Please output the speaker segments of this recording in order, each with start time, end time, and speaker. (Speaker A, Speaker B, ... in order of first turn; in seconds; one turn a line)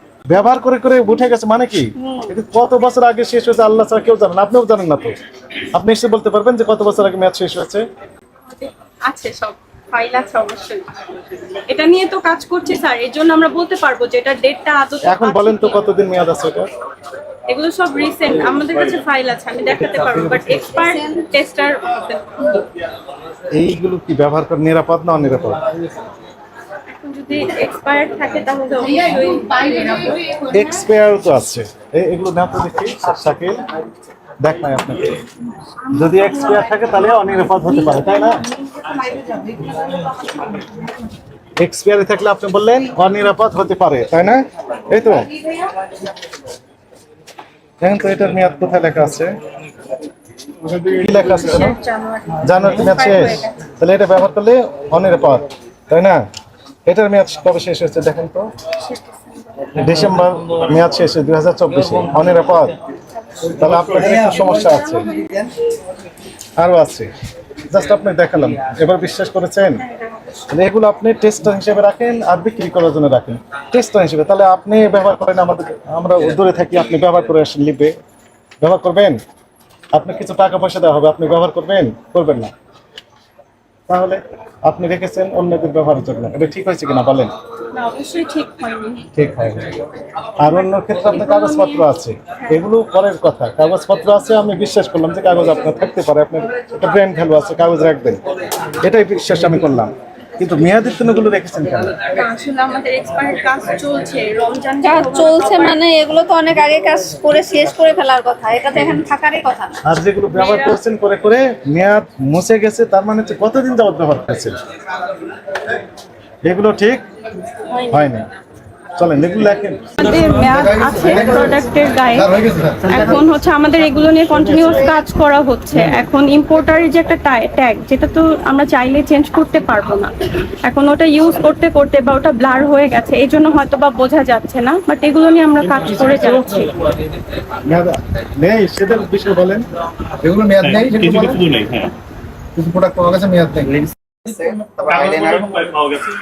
Speaker A: 0.3-5.1
Speaker B: 2.0-2.3
Speaker A: 5.7-7.8
Speaker C: 8.5-10.9
Speaker C: 11.5-15.9
Speaker A: 15.0-16.7
Speaker C: 17.5-22.6
Speaker B: 20.7-21.3
Speaker A: 23.5-25.6
Speaker C: 26.9-30.4
Speaker A: 30.5-33.6
Speaker A: 34.4-35.2
Speaker C: 35.8-39.6
Speaker A: 35.9-38.4
Speaker A: 41.6-45.3
Speaker A: 47.8-49.4
Speaker A: 50.8-51.8
Speaker C: 50.9-53.6
Speaker A: 52.4-56.2
Speaker A: 56.9-58.5
Speaker C: 58.8-59.7
Speaker A: 59.8-62.8
Speaker A: 63.5-65.0
Speaker C: 64.2-65.3
Speaker A: 66.6-67.1
Speaker A: 67.7-69.8
Speaker A: 70.5-78.0
Speaker A: 78.6-79.2
Speaker A: 79.9-82.5
Speaker A: 83.9-87.3
Speaker C: 87.7-89.1
Speaker A: 89.2-89.8
Speaker A: 90.4-98.2
Speaker C: 90.6-92.6
Speaker A: 98.8-102.0
Speaker C: 102.1-105.8
Speaker B: 104.8-109.8
Speaker A: 109.8-114.6
Speaker C: 110.3-110.8
Speaker A: 116.4-117.1
Speaker C: 117.7-118.0
Speaker A: 117.9-118.3
Speaker A: 119.0-120.0
Speaker C: 120.0-136.8
Speaker D: 122.4-122.8
Speaker A: 135.9-136.7
Speaker A: 137.7-139.7
Speaker D: 140.2-141.6
Speaker D: 142.6-145.8